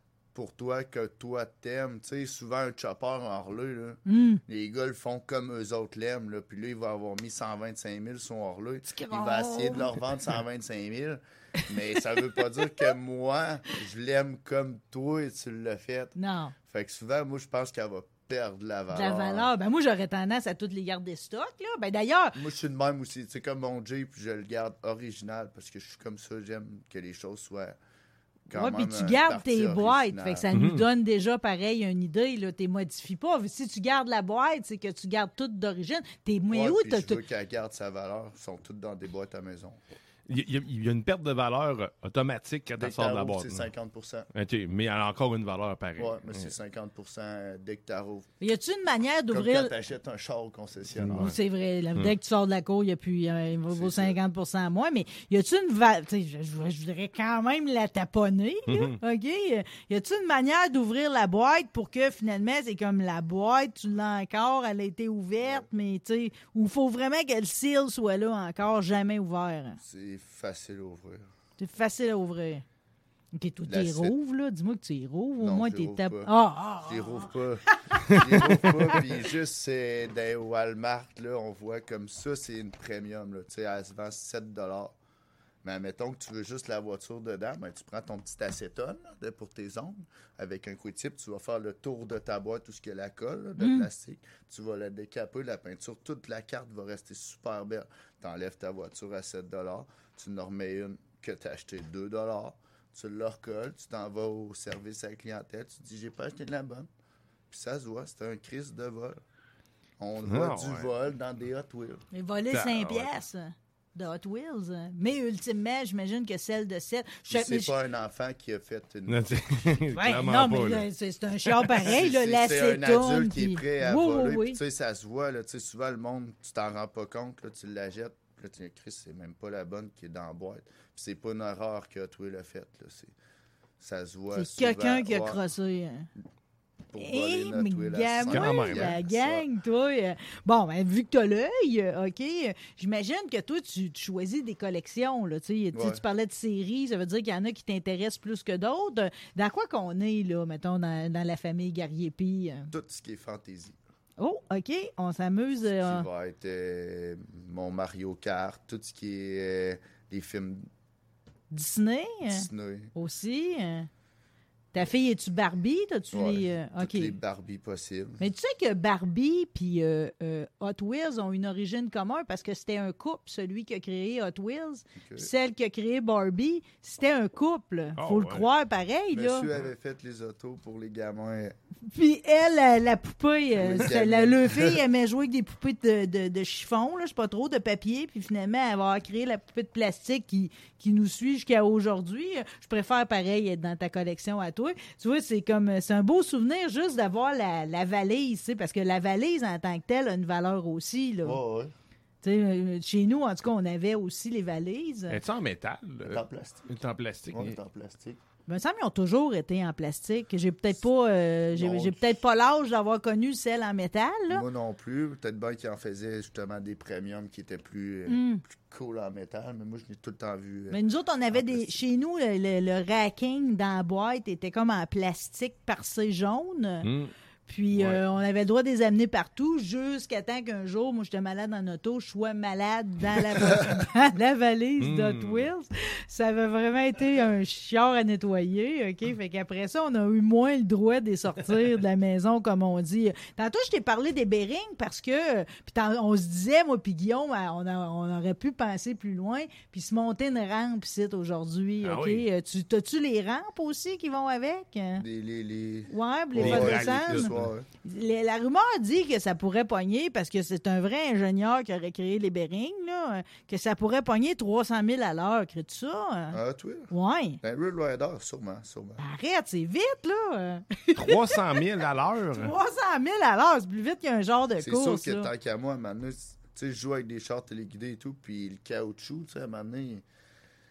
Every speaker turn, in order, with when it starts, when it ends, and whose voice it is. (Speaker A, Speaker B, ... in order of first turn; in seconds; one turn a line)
Speaker A: 0.3-16.1
Speaker B: 4.1-4.4
Speaker B: 8.9-10.0
Speaker B: 16.1-16.5
Speaker A: 16.7-19.5
Speaker B: 18.9-22.4
Speaker A: 22.3-27.8
Speaker A: 28.5-30.4
Speaker B: 28.5-37.2
Speaker C: 30.5-30.8
Speaker A: 36.5-39.8
Speaker C: 40.3-43.6
Speaker A: 42.8-44.3
Speaker C: 44.3-46.5
Speaker A: 46.0-48.3
Speaker B: 48.4-49.7
Speaker A: 49.3-51.3
Speaker C: 51.0-51.4
Speaker B: 51.2-69.8
Speaker A: 53.7-54.2
Speaker C: 58.7-59.0
Speaker A: 65.4-65.7
Speaker A: 69.8-71.2
Speaker B: 71.6-72.6
Speaker B: 73.3-77.3
Speaker A: 73.7-74.1
Speaker A: 75.4-85.0
Speaker B: 77.9-78.9
Speaker A: 85.6-106.9
Speaker B: 93.6-93.9
Speaker A: 107.5-109.2
Speaker A: 110.0-112.0
Speaker C: 110.2-110.9
Speaker B: 112.1-117.7
Speaker C: 112.5-113.2
Speaker A: 117.3-119.7
Speaker C: 119.1-120.9
Speaker B: 119.9-124.6
Speaker A: 121.7-133.1
Speaker A: 133.8-135.4
Speaker B: 134.3-136.1
Speaker A: 136.9-139.4
Speaker B: 137.0-152.7
Speaker C: 138.3-138.9
Speaker A: 145.7-146.0
Speaker A: 152.7-153.8
Speaker B: 154.2-156.1
Speaker A: 155.8-160.7
Speaker B: 161.5-163.9
Speaker A: 162.3-162.9
Speaker B: 164.7-167.2
Speaker A: 166.1-168.2
Speaker B: 168.2-179.5
Speaker A: 175.0-175.3
Speaker C: 178.0-178.5
Speaker A: 179.1-181.6
Speaker B: 181.9-201.4
Speaker A: 183.6-184.8
Speaker A: 201.2-201.7
Speaker B: 202.2-205.2
Speaker C: 205.1-207.6
Speaker A: 206.0-206.8
Speaker A: 207.3-208.2
Speaker B: 208.5-214.4
Speaker A: 211.5-212.2
Speaker A: 214.3-220.8
Speaker B: 218.1-218.4
Speaker B: 220.7-226.9
Speaker A: 221.3-221.8
Speaker C: 226.8-227.1
Speaker B: 227.5-255.0
Speaker C: 227.7-228.0
Speaker C: 234.8-235.5
Speaker C: 251.8-252.2
Speaker A: 255.0-257.7
Speaker B: 255.9-257.3
Speaker C: 256.4-257.5
Speaker B: 257.8-266.4
Speaker A: 266.3-269.0
Speaker B: 266.9-267.4
Speaker B: 269.0-271.4
Speaker C: 270.9-272.5
Speaker B: 272.3-275.3
Speaker A: 274.6-280.0